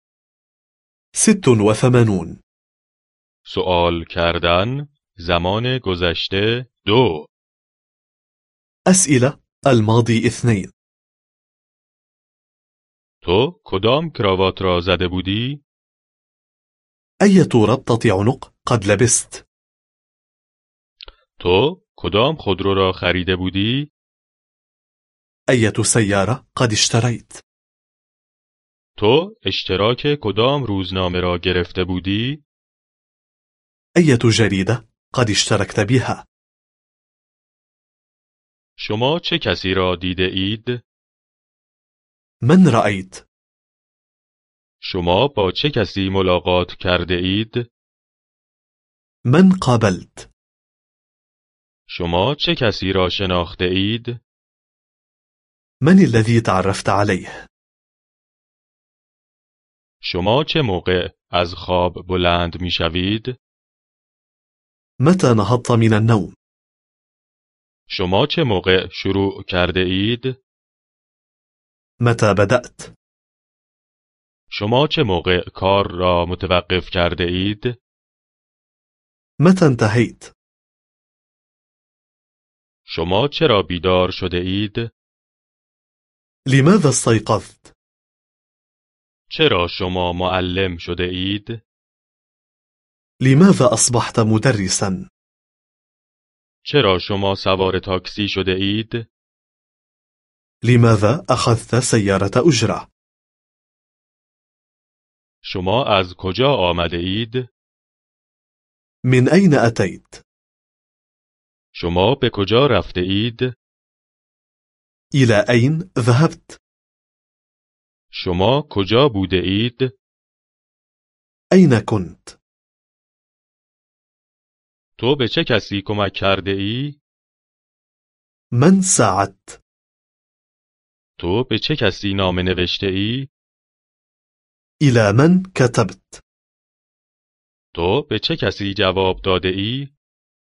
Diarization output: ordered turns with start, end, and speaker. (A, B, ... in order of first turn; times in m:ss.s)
0:01.1-0:02.4 A
0:03.4-0:07.3 B
0:08.9-0:10.7 A
0:13.2-0:15.6 B
0:17.2-0:19.4 A
0:21.4-0:23.9 B
0:25.5-0:27.4 A
0:29.0-0:32.4 B
0:34.0-0:36.3 A
0:38.8-0:40.8 B
0:42.4-0:43.2 A
0:44.8-0:47.6 B
0:49.2-0:50.3 A
0:51.9-0:54.2 B
0:55.8-0:57.4 A
1:00.0-1:03.4 B
1:05.0-1:06.4 A
1:07.9-1:10.4 B
1:12.0-1:12.9 A
1:14.5-1:17.8 B
1:19.4-1:20.3 A
1:22.9-1:24.9 B
1:26.5-1:27.7 A
1:29.3-1:31.6 B
1:33.2-1:35.1 A
1:36.6-1:39.1 B
1:40.6-1:42.9 A
1:45.4-1:47.5 B
1:49.0-1:50.2 A
1:51.8-1:53.5 B
1:55.1-1:56.6 A
1:58.1-1:59.9 B
2:01.5-2:02.4 A
2:05.0-2:07.0 B
2:08.5-2:09.6 A
2:11.2-2:13.3 B
2:14.8-2:16.2 A
2:17.7-2:19.9 B